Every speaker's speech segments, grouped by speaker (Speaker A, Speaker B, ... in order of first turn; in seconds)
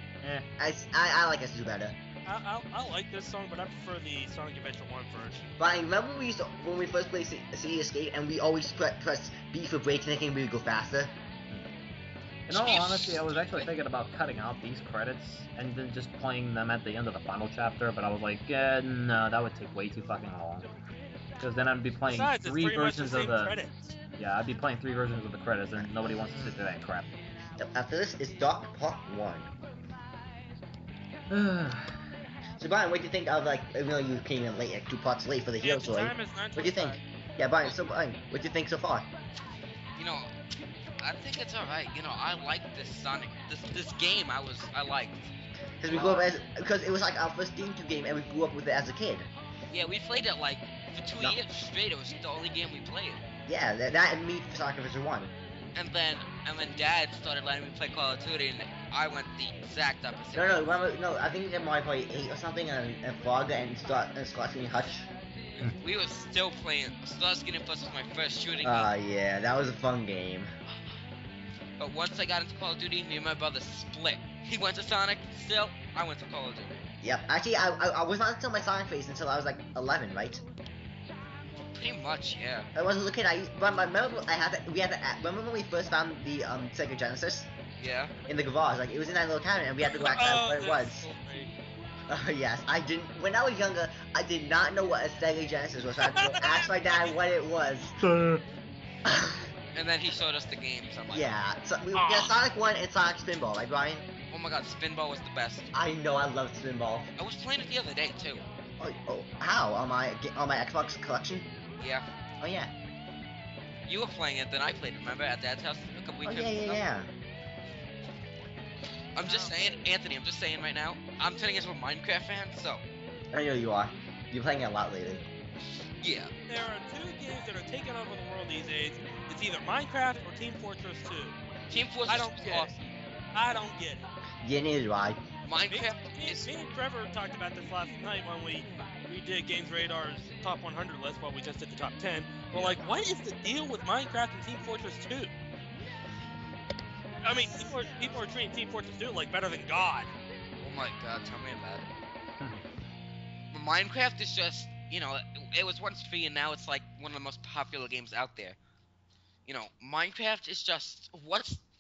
Speaker A: 0.2-0.5, 12.5-20.7, 21.4-23.6, 24.1-27.1, 31.3-32.0, 98.0-98.4
Speaker B: 0.6-2.0, 5.6-11.1, 25.8-26.6, 27.6-29.5, 32.6-39.1, 45.8-49.3, 53.5-55.3, 60.3-65.1, 68.6-70.5, 77.0-80.4, 82.8-87.5, 88.3-91.1, 92.1-98.0, 99.1-99.5, 101.1-104.1, 105.7-107.1, 108.8-111.5, 112.4-112.7, 116.2-117.1, 123.3-125.3, 134.4-135.2
Speaker C: 2.2-5.6, 22.1-24.0, 35.6-37.0, 89.8-91.5, 96.0-97.2, 101.9-102.3, 119.2-119.6, 126.5-131.4, 132.1-132.7, 133.3-134.1, 135.7-145.3, 147.2-150.1
Speaker D: 12.5-13.7, 40.0-40.3, 41.0-45.3, 45.9-46.3, 49.7-53.2, 55.8-60.6, 65.5-68.9, 71.8-76.7, 81.6-82.7, 87.8-88.2, 99.7-101.3, 104.3-105.7, 107.2-108.5, 111.8-112.1, 113.9-116.8, 119.2-122.8, 126.0-126.3, 131.7-132.9, 135.4-136.5, 142.5-142.9, 147.3-148.2, 150.6-151.9, 153.5-158.6, 159.5-161.6